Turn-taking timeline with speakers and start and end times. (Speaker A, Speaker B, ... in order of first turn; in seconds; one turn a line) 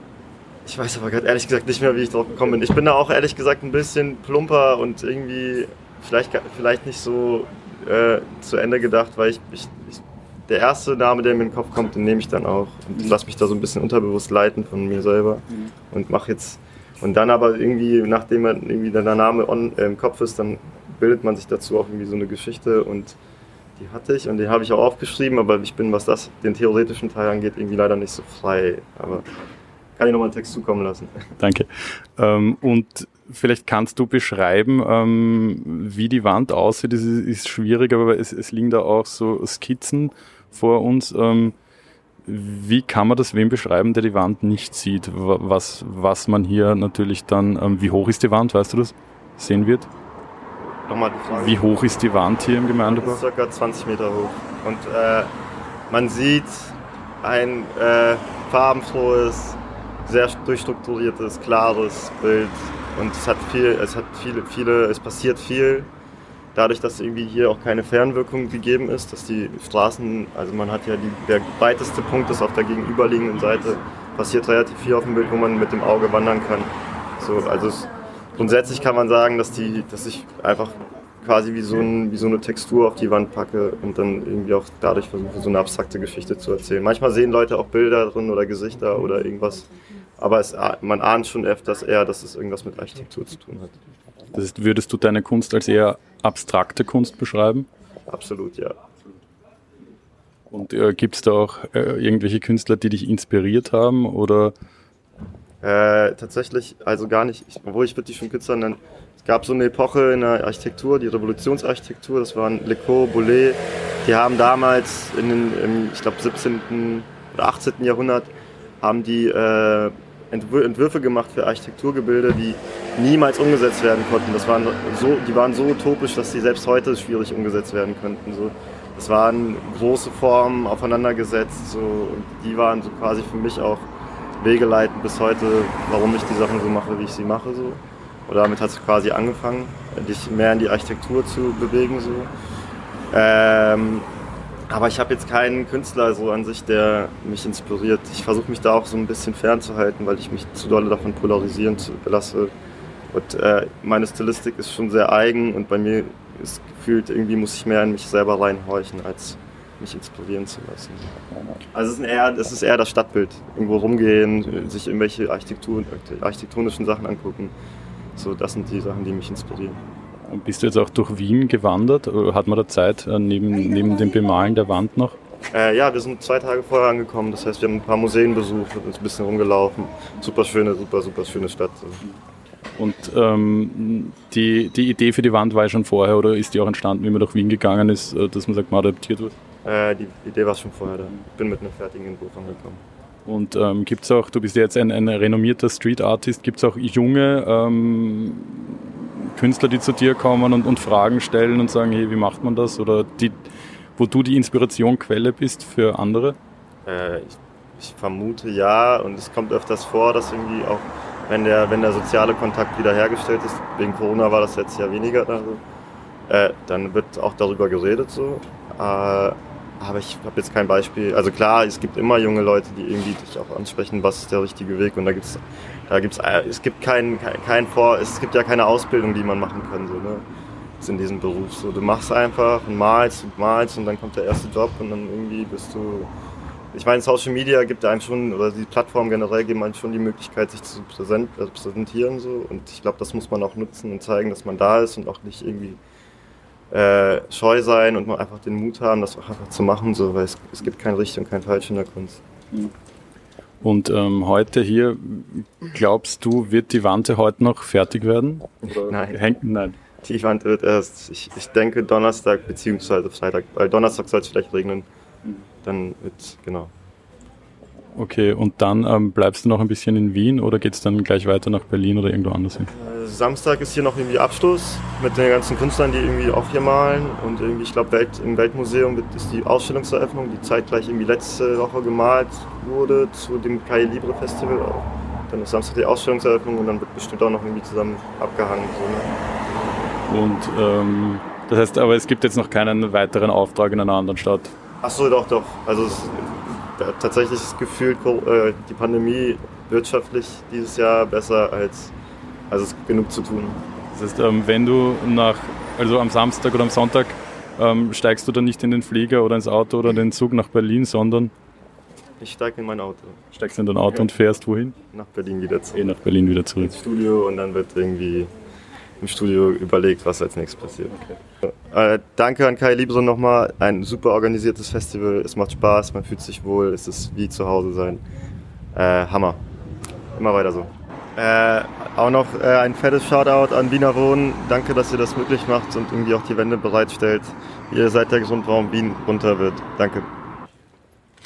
Speaker A: 0.7-23.1
Speaker A: 23.8-29.2
Speaker A: 30.0-31.2
Speaker B: 31.4-41.5
Speaker B: 42.2-49.9
Speaker A: 50.9-51.7
Speaker B: 51.3-53.2
Speaker A: 52.9-55.3
Speaker A: 55.9-65.9
Speaker A: 66.5-89.7
Speaker A: 90.2-93.8
Speaker B: 94.3-97.7
Speaker A: 98.1-98.8
Speaker B: 100.5-104.5
Speaker A: 105.6-133.9
Speaker A: 134.4-142.3
Speaker A: 143.1-144.1
Speaker A: 144.7-152.5
Speaker A: 153.1-161.1
Speaker A: 161.7-167.5
Speaker A: 168.2-169.8
Speaker B: 170.3-175.2
Speaker A: 175.5-182.0
Speaker B: 182.8-189.3
Speaker A: 189.6-192.8
Speaker B: 193.2-206.4
Speaker A: 206.8-215.6
Speaker A: 216.3-230.2
Speaker A: 230.8-236.1
Speaker A: 236.7-245.8
Speaker A: 246.7-252.2
Speaker B: 253.6-259.8
Speaker A: 258.7-259.2
Speaker A: 260.0-264.9
Speaker A: 265.6-266.7
Speaker B: 267.9-272.7
Speaker A: 272.6-289.1
Speaker B: 290.1-294.5
Speaker A: 294.8-301.9
Speaker A: 302.5-303.6
Speaker B: 303.9-311.3
Speaker A: 312.2-313.1
Speaker B: 313.3-314.8
Speaker A: 314.9-315.9
Speaker B: 315.7-316.8
Speaker A: 316.6-318.3
Speaker A: 319.0-321.1
Speaker A: 321.6-328.0
Speaker A: 328.7-329.4
Speaker A: 330.1-340.1